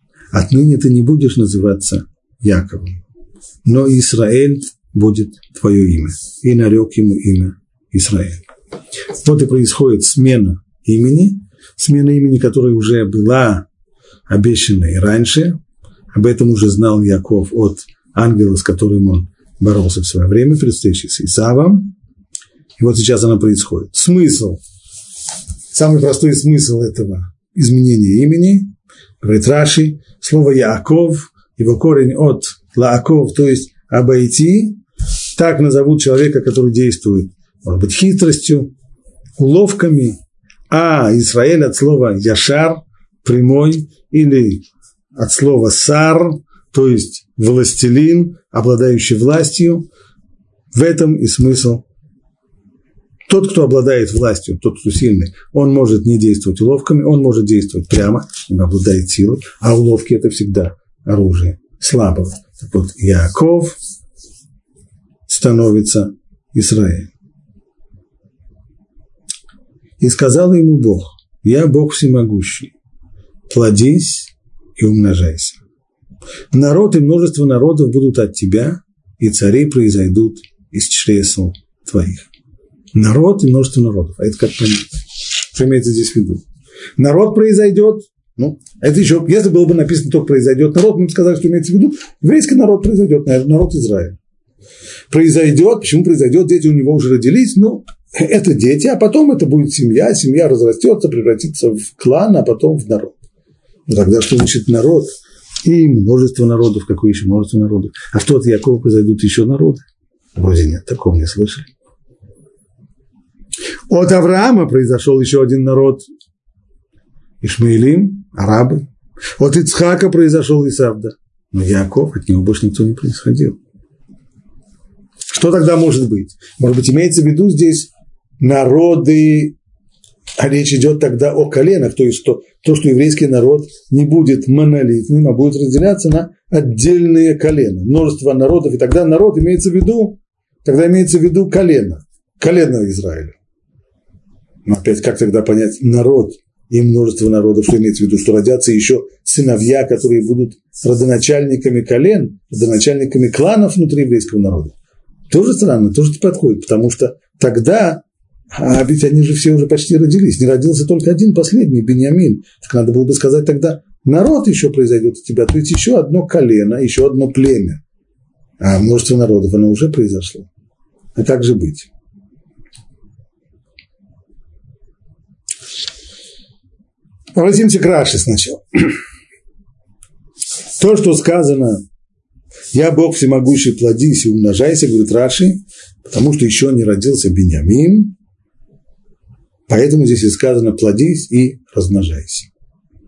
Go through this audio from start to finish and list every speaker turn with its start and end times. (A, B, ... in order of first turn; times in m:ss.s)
0:00.3-0:03.0 A
0:03.6-0:08.4 A
0:09.1-0:13.6 A
0:14.3-0:15.6 A
0:16.1-0:21.9 A
0:22.8-0:24.6 A
0:25.7-0:34.8 A
0:35.3-0:38.7 A
0:39.4-0:40.2 A
0:40.7-0:49.9 A
0:50.7-0:51.8 A
0:53.3-1:03.8 A
1:05.3-1:07.1 A
1:10.0-1:12.7 A
1:13.5-1:15.6 A
1:16.5-1:22.3 A
1:22.9-1:25.0 A
1:25.5-1:26.4 A
1:27.0-1:34.2 A
1:35.1-1:43.2 A
1:43.9-1:45.1 A
1:45.6-1:51.7 A
1:53.9-1:56.0 A
1:57.4-1:58.9 A
1:59.4-2:03.6 A
2:05.3-2:09.5 A
2:10.4-2:23.4 A
2:24.6-2:34.7 A
2:35.3-2:47.8 A
2:48.6-2:50.5 A
2:51.1-2:51.9 A
2:57.3-2:59.0 A
3:00.8-3:01.8 A
3:02.7-3:08.1 A
3:09.7-3:12.5 A